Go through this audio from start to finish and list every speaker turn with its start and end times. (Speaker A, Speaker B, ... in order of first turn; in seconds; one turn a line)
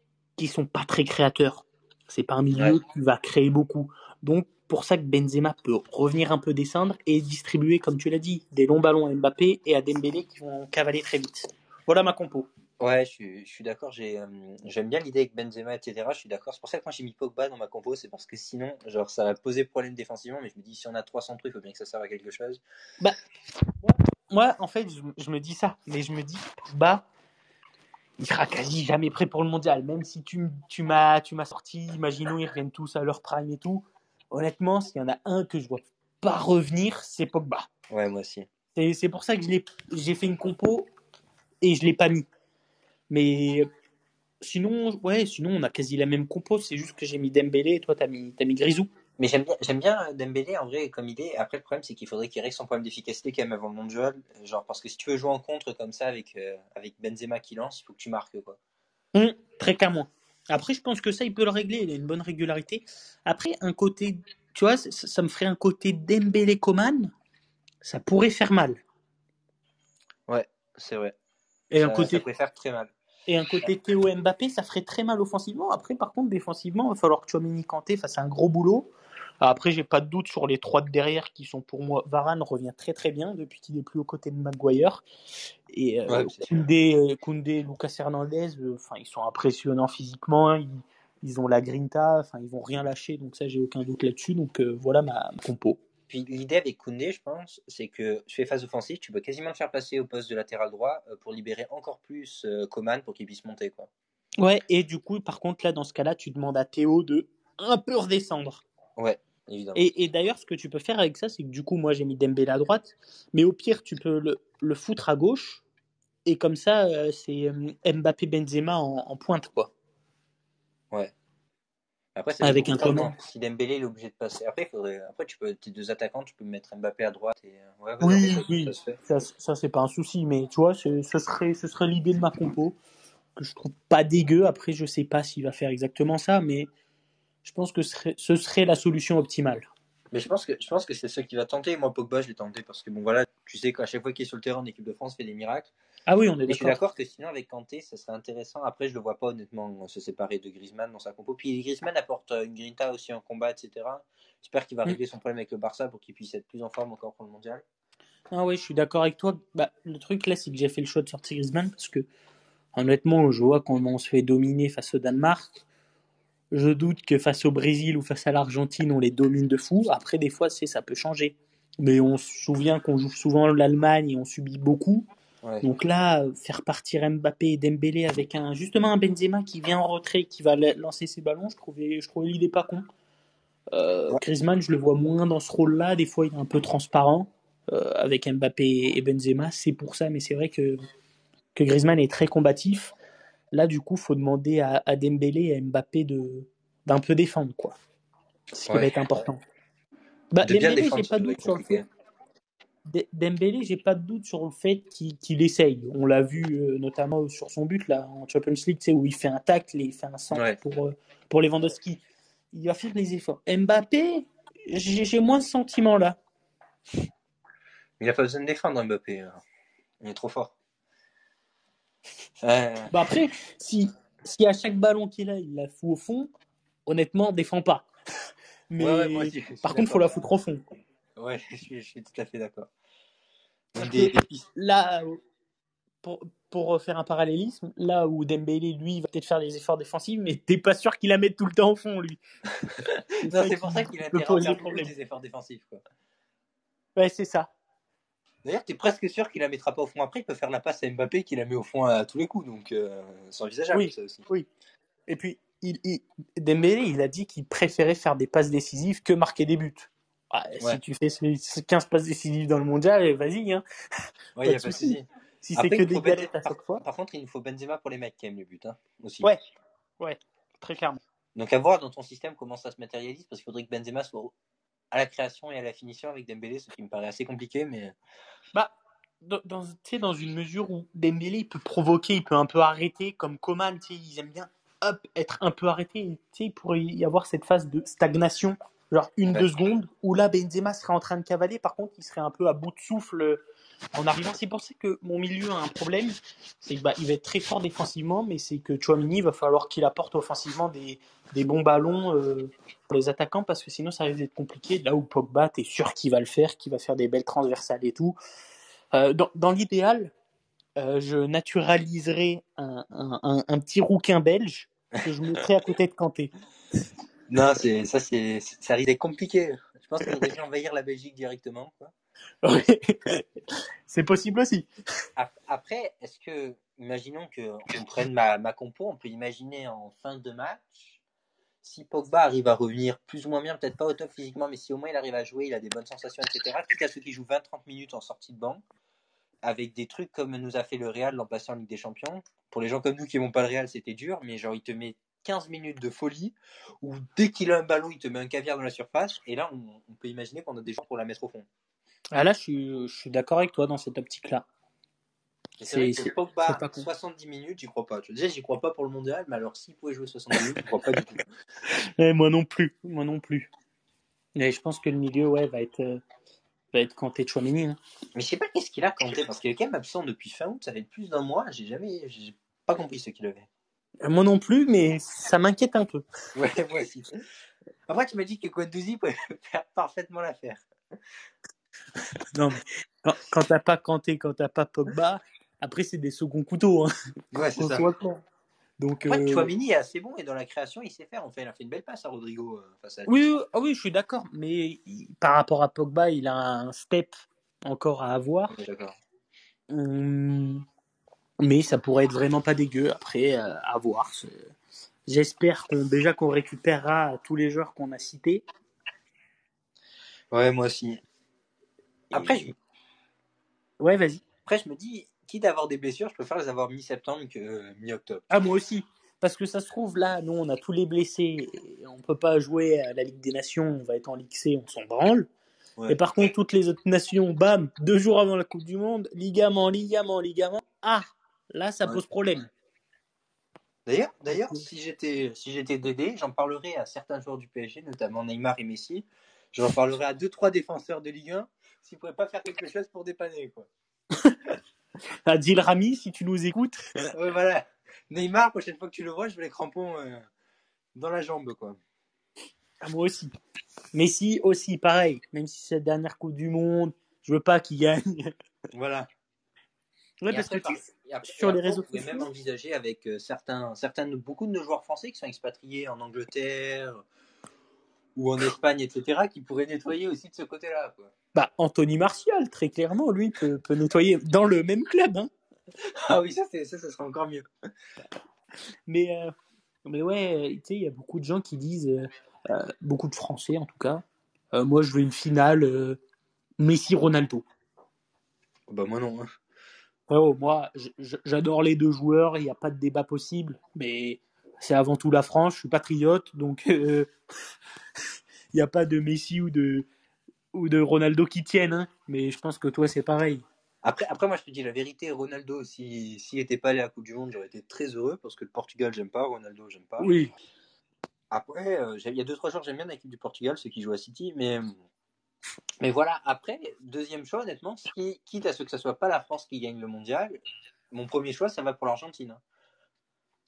Speaker A: 0.4-12.5
Speaker B: 2.5-2.8
Speaker B: 12.8-22.6
Speaker A: 23.7-27.1
Speaker A: 28.2-37.7
Speaker B: 37.9-38.5
Speaker A: 38.7-40.9
Speaker A: 41.6-42.3
Speaker A: 43.1-43.7
Speaker A: 44.4-48.9
Speaker B: 49.2-58.6
Speaker A: 59.1-67.1
Speaker A: 67.8-68.8
Speaker B: 70.3-71.1
Speaker A: 71.7-72.2
Speaker B: 71.8-72.9
Speaker A: 73.3-78.9
Speaker A: 79.4-85.0
Speaker A: 85.7-95.8
Speaker B: 86.1-86.6
Speaker B: 96.1-103.9
Speaker A: 104.4-108.6
Speaker B: 109.0-109.9
Speaker A: 109.7-115.6
Speaker A: 116.2-119.7
Speaker B: 122.2-129.0
Speaker A: 122.4-123.1
Speaker A: 128.0-132.8
Speaker A: 133.3-136.7
Speaker A: 137.4-139.7
Speaker B: 140.1-145.7
Speaker A: 146.1-146.8
Speaker B: 146.5-157.6
Speaker A: 158.3-162.1
Speaker A: 162.7-165.6
Speaker A: 166.5-175.1
Speaker A: 175.6-182.8
Speaker A: 183.7-190.8
Speaker A: 191.5-192.9
Speaker A: 193.5-197.8
Speaker A: 198.5-199.4
Speaker B: 198.7-199.0
Speaker A: 200.3-201.8
Speaker B: 200.4-201.8
Speaker A: 202.9-216.2
Speaker B: 210.3-210.6
Speaker B: 218.0-219.4
Speaker B: 220.0-220.5
Speaker B: 222.4-222.9
Speaker A: 222.9-226.3
Speaker A: 226.9-227.9
Speaker A: 228.7-230.6
Speaker B: 228.8-230.1
Speaker B: 231.2-232.7
Speaker B: 233.7-234.4
Speaker A: 233.8-235.2
Speaker A: 236.0-242.2
Speaker B: 242.8-245.8
Speaker A: 243.2-244.9
Speaker A: 246.9-247.5
Speaker B: 248.4-254.2
Speaker A: 253.7-254.5
Speaker A: 255.1-263.6
Speaker B: 264.4-269.3
Speaker A: 264.4-266.8
Speaker A: 270.0-271.0
Speaker B: 271.4-274.3
Speaker B: 274.9-277.9
Speaker A: 278.5-293.4
Speaker A: 293.9-308.1
Speaker A: 308.9-310.1
Speaker A: 310.8-316.3
Speaker B: 317.3-321.9
Speaker A: 322.4-323.3
Speaker A: 323.9-324.7
Speaker B: 325.2-331.0
Speaker B: 331.6-338.6
Speaker B: 339.4-351.5
Speaker A: 352.1-354.4
Speaker B: 355.6-361.2
Speaker A: 355.7-356.9
Speaker A: 361.7-363.5
Speaker A: 364.4-366.0
Speaker A: 366.7-367.8
Speaker B: 368.1-373.5
Speaker A: 374.0-376.0
Speaker B: 376.3-377.1
Speaker B: 377.9-380.6
Speaker A: 382.3-386.9
Speaker B: 387.3-387.9
Speaker A: 387.6-388.2
Speaker A: 388.8-389.5
Speaker B: 389.0-393.3
Speaker A: 393.1-397.1
Speaker A: 397.6-398.5
Speaker B: 398.5-398.9
Speaker A: 399.7-400.6
Speaker A: 401.4-404.5
Speaker A: 405.1-408.4
Speaker B: 410.3-411.0
Speaker A: 412.1-412.4
Speaker B: 412.1-412.5
Speaker A: 413.8-414.2
Speaker B: 414.4-418.2
Speaker A: 418.3-425.3
Speaker B: 425.8-426.0
Speaker A: 425.9-432.5
Speaker B: 433.9-443.7
Speaker A: 434.3-434.6
Speaker A: 445.2-447.1
Speaker B: 447.1-450.3
Speaker B: 450.9-451.8
Speaker A: 452.8-453.3
Speaker A: 453.9-458.3
Speaker B: 458.7-459.1
Speaker A: 460.2-462.2
Speaker B: 460.3-467.0
Speaker B: 468.1-471.1
Speaker A: 471.3-475.3
Speaker B: 475.8-477.4
Speaker A: 478.9-479.3
Speaker A: 479.9-486.0
Speaker A: 486.6-487.4
Speaker B: 488.7-489.2
Speaker A: 490.1-497.1
Speaker A: 498.5-499.9
Speaker A: 500.5-503.4
Speaker B: 503.8-510.1
Speaker A: 510.0-510.3
Speaker B: 511.3-514.8
Speaker B: 515.8-522.4